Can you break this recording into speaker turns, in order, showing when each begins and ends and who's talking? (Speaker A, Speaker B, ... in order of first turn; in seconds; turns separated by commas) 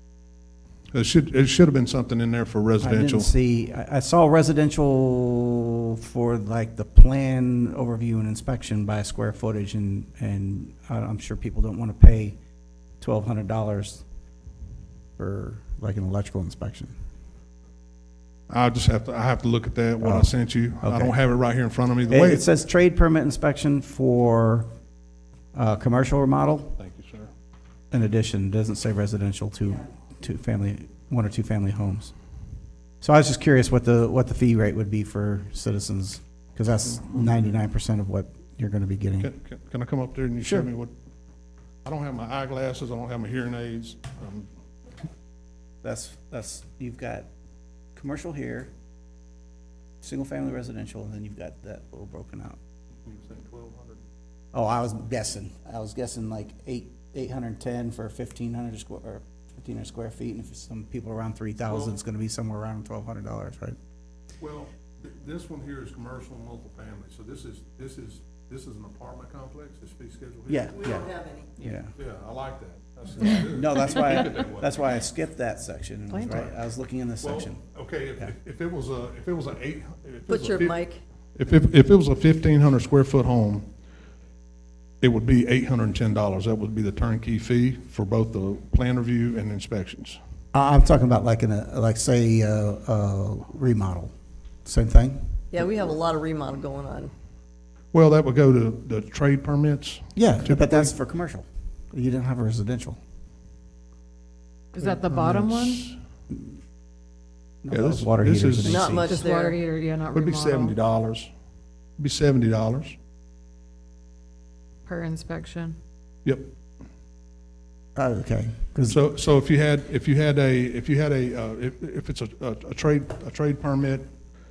Speaker A: 0.9-3.3, Speaker B: 2.8-12.4, Speaker B: 13.0-14.0, Speaker B: 15.2-16.9, Speaker A: 18.5-22.4, Speaker B: 20.0-21.1, Speaker B: 22.1-24.7, Speaker B: 25.5-26.8, Speaker A: 26.8-27.3, Speaker B: 27.9-32.1, Speaker B: 33.0-39.3, Speaker A: 39.2-40.9, Speaker B: 40.4-40.7, Speaker A: 41.8-44.5, Speaker B: 45.8-47.3, Speaker B: 47.9-48.7, Speaker B: 50.0-52.6, Speaker A: 53.0-54.0, Speaker B: 54.5-63.8, Speaker A: 61.7-62.0, Speaker A: 64.4-71.0, Speaker B: 70.5-71.9, Speaker A: 71.9-74.8, Speaker B: 73.5-77.6, Speaker C: 76.1-76.4, Speaker A: 77.2-80.8, Speaker D: 80.3-81.0, Speaker A: 81.3-83.7, Speaker A: 85.0-90.2, Speaker B: 90.5-94.1, Speaker B: 94.6-95.2, Speaker D: 95.5-97.1, Speaker A: 97.9-100.9, Speaker B: 100.1-103.0, Speaker C: 104.7-105.9, Speaker A: 105.0-105.9, Speaker B: 107.6-109.1, Speaker A: 107.7-109.0, Speaker D: 108.6-109.6, Speaker C: 109.0-110.8, Speaker A: 110.1-111.3, Speaker A: 112.0-113.0, Speaker C: 114.8-115.8, Speaker A: 116.2-116.5, Speaker B: 118.0-119.0, Speaker A: 118.9-124.1